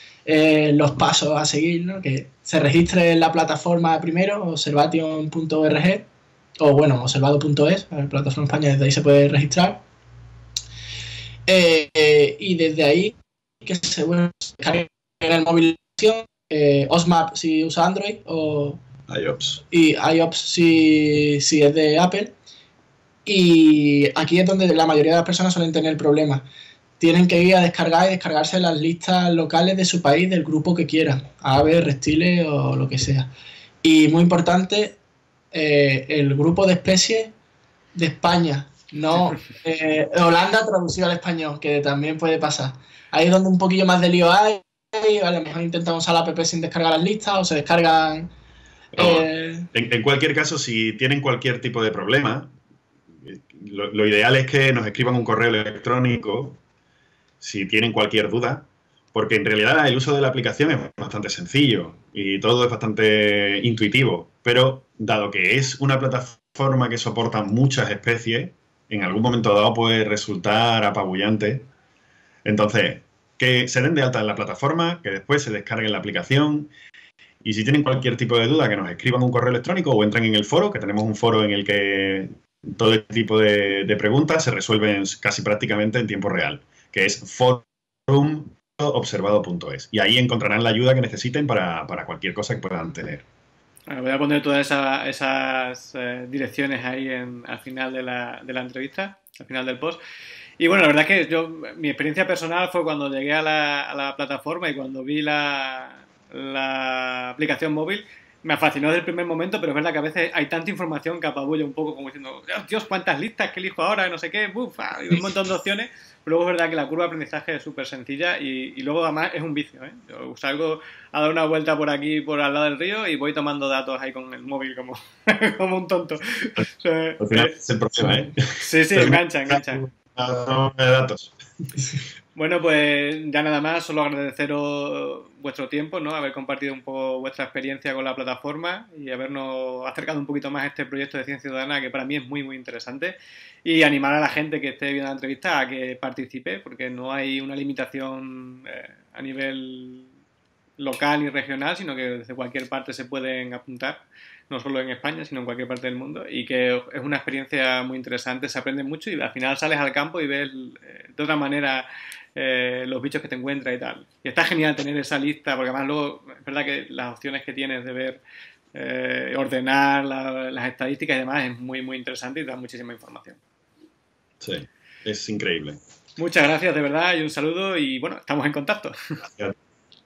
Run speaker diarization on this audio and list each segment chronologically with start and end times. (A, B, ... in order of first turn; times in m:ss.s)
0:00.3-0:06.0 A
0:06.6-0:09.8 A
0:11.5-0:18.8 A
0:19.1-0:19.6 B
0:19.7-0:22.3 A
0:23.3-0:26.4 A
0:27.0-0:33.3 A
0:33.8-0:35.0 A
0:35.5-0:37.3 A
0:38.0-0:48.3 A
0:48.9-0:49.7 A
0:49.0-0:52.5 B
0:53.2-0:56.6 B
0:57.4-1:11.7 B
1:12.4-1:16.7 B
1:17.4-1:33.2 B
1:33.9-1:40.0 C
1:40.6-2:07.5 C
2:07.2-2:11.3 B
2:08.6-2:09.8 C
2:12.4-2:30.1 C
2:30.8-2:48.2 C
2:48.7-2:53.4 C
2:54.4-2:55.8 B
2:56.2-2:59.0 C
2:59.2-2:59.6 B